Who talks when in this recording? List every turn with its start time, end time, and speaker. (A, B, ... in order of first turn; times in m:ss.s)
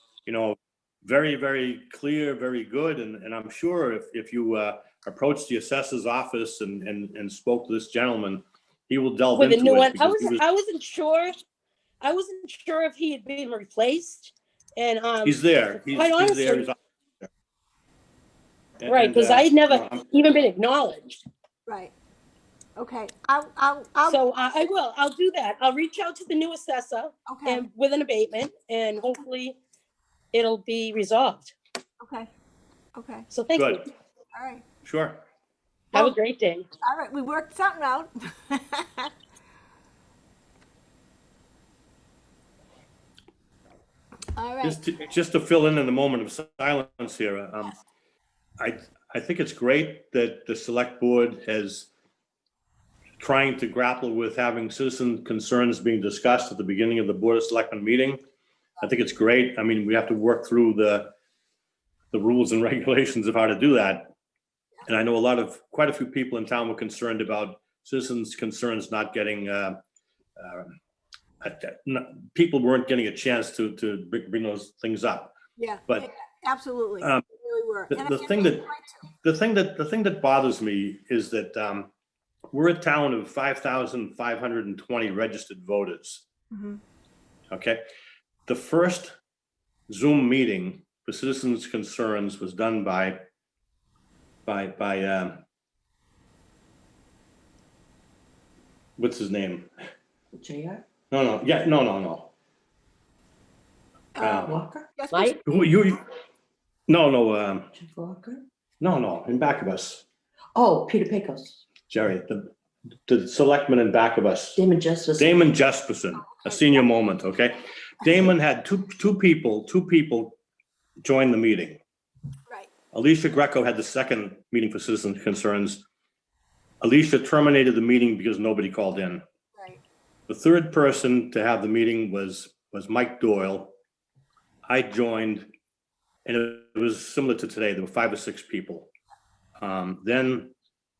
0:00.3-0:10.4 A
0:09.3-0:11.4 B
0:12.0-0:16.7 B
0:15.2-0:17.3 A
0:18.8-0:20.0 A
0:18.9-0:21.2 B
0:21.7-0:21.9 C
0:22.8-0:24.2 C
0:24.1-0:29.6 B
0:27.3-0:27.6 C
0:30.3-0:31.5 B
0:32.0-0:32.3 C
0:33.0-0:33.3 C
0:33.3-0:33.8 B
0:33.6-0:33.8 A
0:34.3-0:34.6 C
0:34.8-0:35.2 A
0:35.9-0:36.7 B
0:36.8-0:39.1 C
0:44.4-0:44.8 C
0:44.6-0:47.8 A
0:48.6-0:51.9 A
0:53.2-0:58.2 A
0:58.8-1:01.1 A
1:02.1-1:04.1 A
1:04.9-1:09.8 A
1:10.4-1:10.8 A
1:11.4-1:15.4 A
1:15.6-1:19.0 C
1:17.9-1:18.7 A
1:19.2-1:21.9 A
1:22.5-1:26.2 A
1:26.5-1:26.8 C
1:27.5-1:27.8 A
1:28.5-1:29.1 A
1:29.9-1:33.2 A
1:34.5-1:35.4 A
1:39.0-1:39.7 A
1:40.3-1:40.8 D
1:41.1-1:42.3 A
1:44.2-1:45.4 C
1:44.2-1:44.5 A
1:44.3-1:44.9 D
1:45.1-1:45.4 B
1:45.5-1:46.0 A
1:46.9-1:47.7 A
1:47.7-1:48.4 D
1:48.8-1:50.0 A
1:50.6-1:51.6 D
1:51.9-1:52.5 A
1:53.1-1:54.6 A
1:54.6-1:55.5 D
1:55.2-2:00.4 A
2:01.0-2:01.8 A
2:02.9-2:05.8 A
2:06.8-2:09.2 A
2:09.6-2:09.8 C
2:10.3-2:13.7 A
2:14.7-2:15.5 A
2:16.2-2:18.9 A
2:19.6-2:20.5 A